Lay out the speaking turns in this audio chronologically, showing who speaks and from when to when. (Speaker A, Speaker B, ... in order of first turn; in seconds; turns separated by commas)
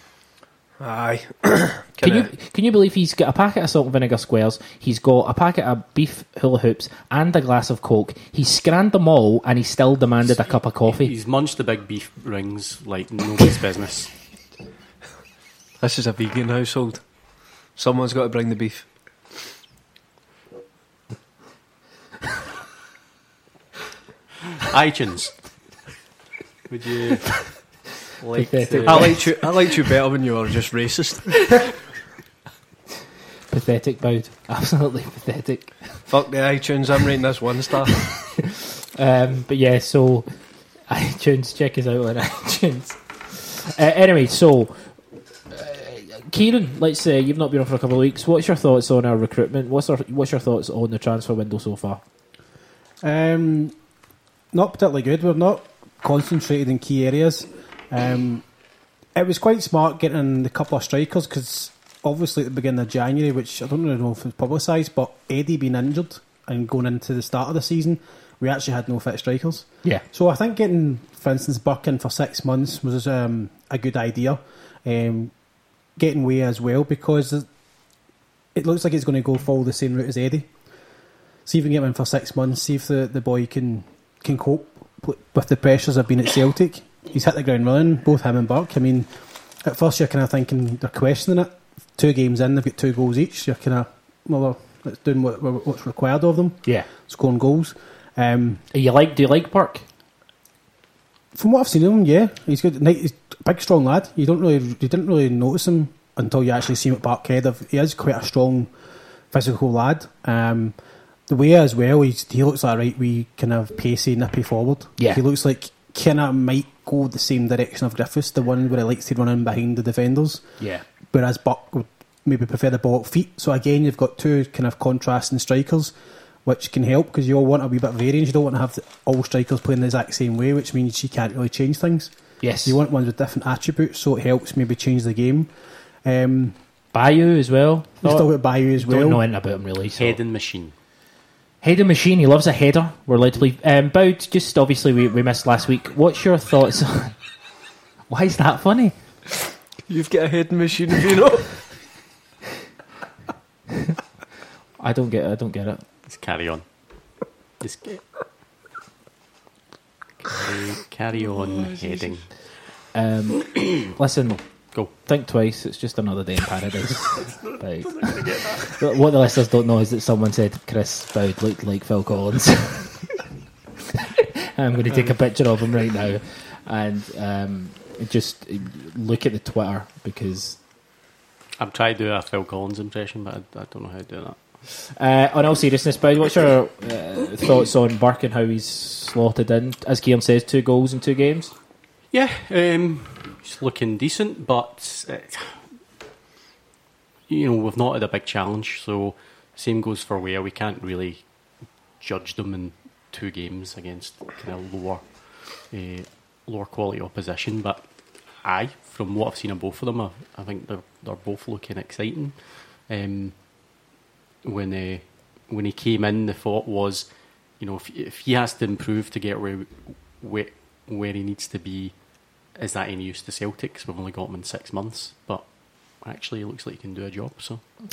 Speaker A: 0.8-2.3, Speaker B: 2.0-11.1, Speaker C: 10.5-14.2, Speaker A: 15.8-18.9, Speaker C: 24.6-25.6, Speaker C: 26.7-29.3, Speaker B: 28.4-29.5, Speaker A: 28.9-31.7, Speaker B: 33.5-36.1, Speaker A: 36.1-38.2, Speaker B: 39.0-40.3, Speaker B: 40.8-52.0, Speaker D: 53.0-53.8, Speaker D: 54.5-58.5, Speaker D: 59.1-75.4, Speaker D: 76.0-77.5, Speaker D: 78.5-80.6, Speaker D: 81.5-98.6, Speaker B: 98.7-99.8, Speaker D: 101.3-108.7, Speaker D: 109.3-120.5, Speaker B: 115.0-115.2, Speaker B: 120.6-120.8, Speaker D: 121.1-125.9, Speaker D: 126.5-136.6, Speaker B: 132.4-132.8, Speaker B: 136.9-140.2, Speaker D: 138.0-139.2, Speaker C: 140.0-140.7, Speaker B: 141.6-147.2, Speaker B: 148.1-149.0, Speaker A: 149.9-151.7, Speaker B: 154.8-155.8, Speaker C: 156.1-158.2, Speaker C: 160.2-162.3, Speaker B: 162.9-173.1, Speaker C: 167.2-168.8, Speaker B: 174.5-180.6, Speaker C: 181.6-184.4, Speaker B: 184.9-191.5, Speaker C: 192.1-195.6, Speaker C: 197.3-213.5, Speaker C: 214.4-227.6